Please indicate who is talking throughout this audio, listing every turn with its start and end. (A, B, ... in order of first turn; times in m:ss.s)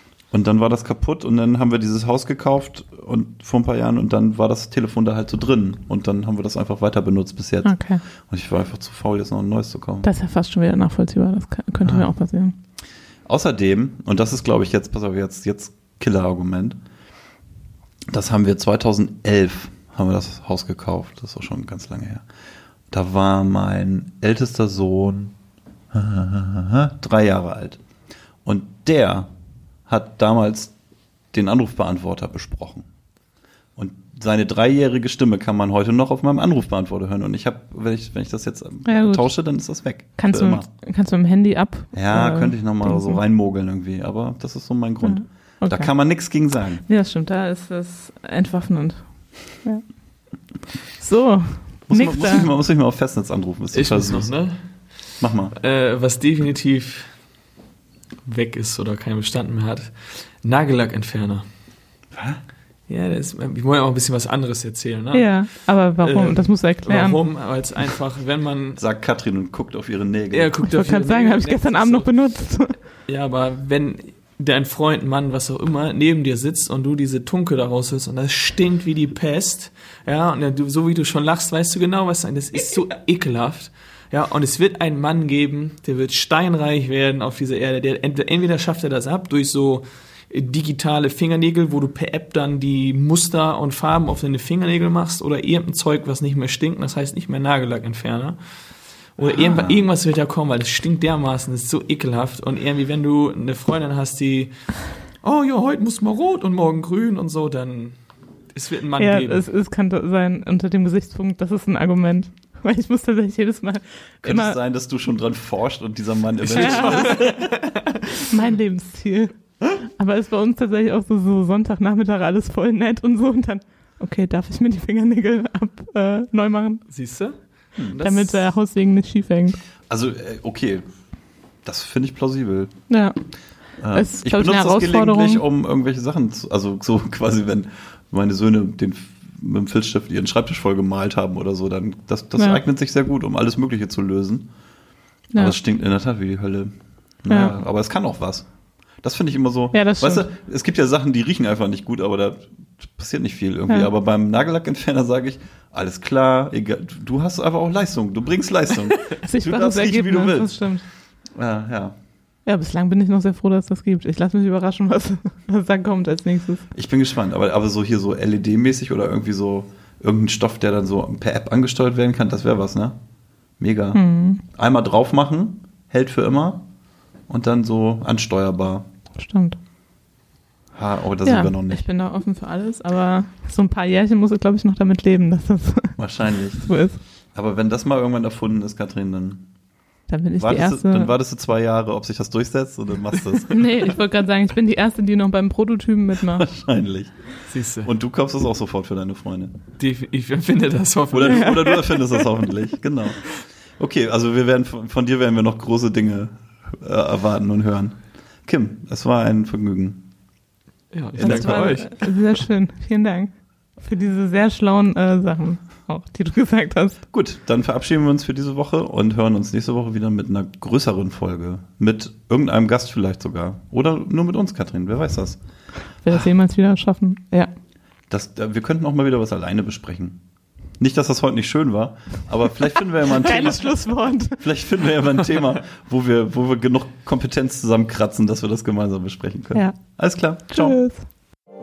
0:00.3-0:10.1 A
0:07.6-0:08.0 B
0:10.0-0:12.6 B
0:11.8-0:12.1 A
0:13.3-0:16.8 A
0:18.1-0:22.2 A
0:22.9-0:25.4 A
0:25.9-0:27.8 A
0:28.4-0:29.3 A
0:29.9-0:30.8 A
0:31.3-0:32.9 A
0:33.8-0:40.7 A
0:38.9-0:39.4 B
0:40.2-0:43.2 B
0:41.9-0:46.8 A
0:45.0-0:45.9 B
0:46.8-0:49.9 B
0:51.0-0:52.5 B
0:51.9-0:54.3 A
0:53.7-0:54.6 C
0:55.2-0:55.5 A
0:55.5-0:57.1 C
0:58.2-1:01.4 C
1:02.1-1:02.4 A
1:02.9-1:08.8 C
1:05.1-1:07.2 B
1:08.8-1:10.6 A
1:10.3-1:12.1 C
1:10.6-1:12.8 B
1:13.1-1:38.4 C
1:39.2-1:44.5 C
1:39.3-1:39.8 A
1:45.2-1:48.0 C
1:48.5-1:49.5 C
1:49.0-1:54.6 B
1:54.2-1:57.5 A
1:56.4-1:58.2 C
1:56.5-1:57.3 B
1:58.3-2:06.8 B
2:06.9-2:08.5 C
2:08.0-2:09.6 B
2:09.9-2:10.8 A
2:11.6-2:12.7 A
2:12.9-2:13.2 B
2:13.8-2:24.5 A
2:13.9-2:15.4 B
2:22.4-2:22.6 B
2:25.3-2:25.6 B
2:25.4-2:26.7 A
2:27.2-2:28.5 A
2:27.3-2:27.6 B
2:29.0-2:40.7 A
2:29.7-2:30.3 B
2:39.2-2:40.8 B
2:41.4-2:42.0 A
2:42.5-2:46.6 B
2:46.7-2:53.0 A
2:53.6-2:56.7 A
2:53.9-2:54.4 B
2:57.3-2:58.9 A
2:59.2-2:59.6 B
3:00.8-3:01.8 A
3:01.2-3:07.0 B
3:06.0-3:06.7 A
3:07.4-3:09.5 A
3:10.1-3:11.1 B
3:10.4-3:13.6 A
3:13.4-3:16.5 B
3:16.3-3:17.2 A
3:17.5-3:17.9 C
3:17.8-3:19.6 A
3:19.8-3:21.8 C
3:21.1-3:30.1 A
3:30.9-3:32.3 C
3:31.2-3:31.8 A
3:31.2-3:37.0 B
3:37.1-3:45.4 A
3:46.0-3:47.5 B
3:48.1-3:50.2 A
3:50.8-4:00.8 A
3:53.0-3:54.4 B
3:59.5-4:00.0 B
4:00.5-4:01.0 B